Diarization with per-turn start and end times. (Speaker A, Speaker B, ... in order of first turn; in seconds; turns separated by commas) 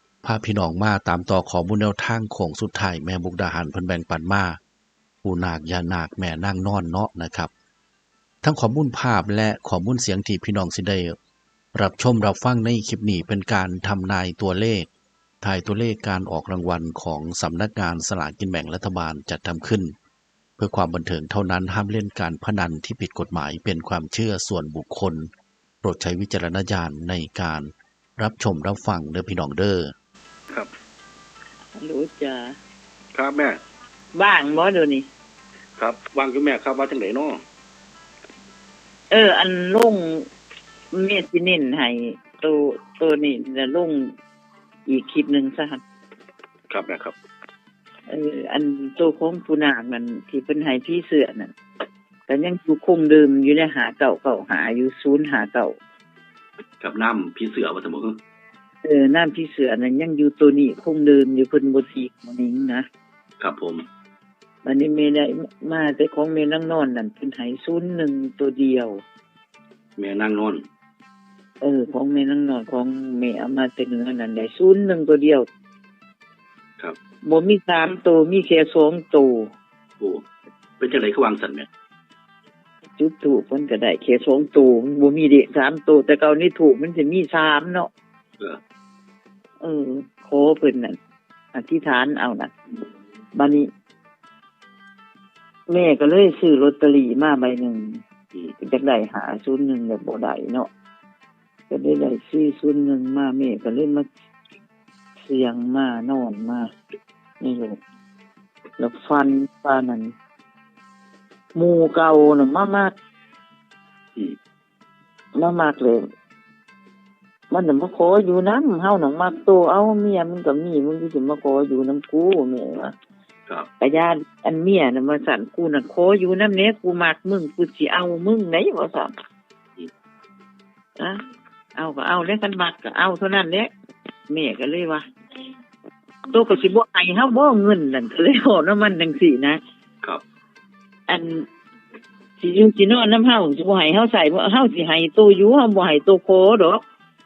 Speaker A: 0.2-4.6, Speaker A: 5.2-7.5, Speaker A: 8.4-11.1, Speaker A: 11.7-14.9, Speaker A: 15.4-19.9, Speaker A: 20.6-25.3, Speaker A: 25.8-29.9, Speaker B: 31.8-32.5, Speaker C: 33.1-33.6, Speaker B: 34.1-35.1, Speaker C: 35.8-37.4, Speaker B: 39.1-40.3, Speaker B: 40.9-44.1, Speaker B: 44.9-45.8, Speaker C: 46.7-47.1, Speaker B: 48.1-51.5, Speaker B: 52.3-55.8, Speaker C: 56.8-58.2, Speaker B: 58.8-62.9, Speaker C: 63.4-63.8, Speaker B: 64.6-69.0, Speaker C: 70.0-70.6, Speaker B: 71.6-75.5, Speaker B: 77.2-79.5, Speaker C: 80.8-81.7, Speaker B: 83.0-87.9, Speaker B: 89.6-91.0, Speaker B: 91.5-92.5, Speaker B: 93.3-93.7, Speaker B: 95.7-98.0, Speaker B: 98.6-100.7, Speaker B: 101.7-104.1, Speaker B: 105.2-106.7, Speaker B: 107.4-107.8, Speaker B: 108.8-110.1, Speaker B: 111.5-112.9, Speaker B: 115.3-116.0, Speaker B: 117.5-122.9, Speaker B: 123.8-129.1, Speaker B: 131.8-133.7, Speaker B: 134.3-135.0, Speaker B: 136.3-139.6, Speaker B: 141.1-141.4, Speaker B: 142.4-146.8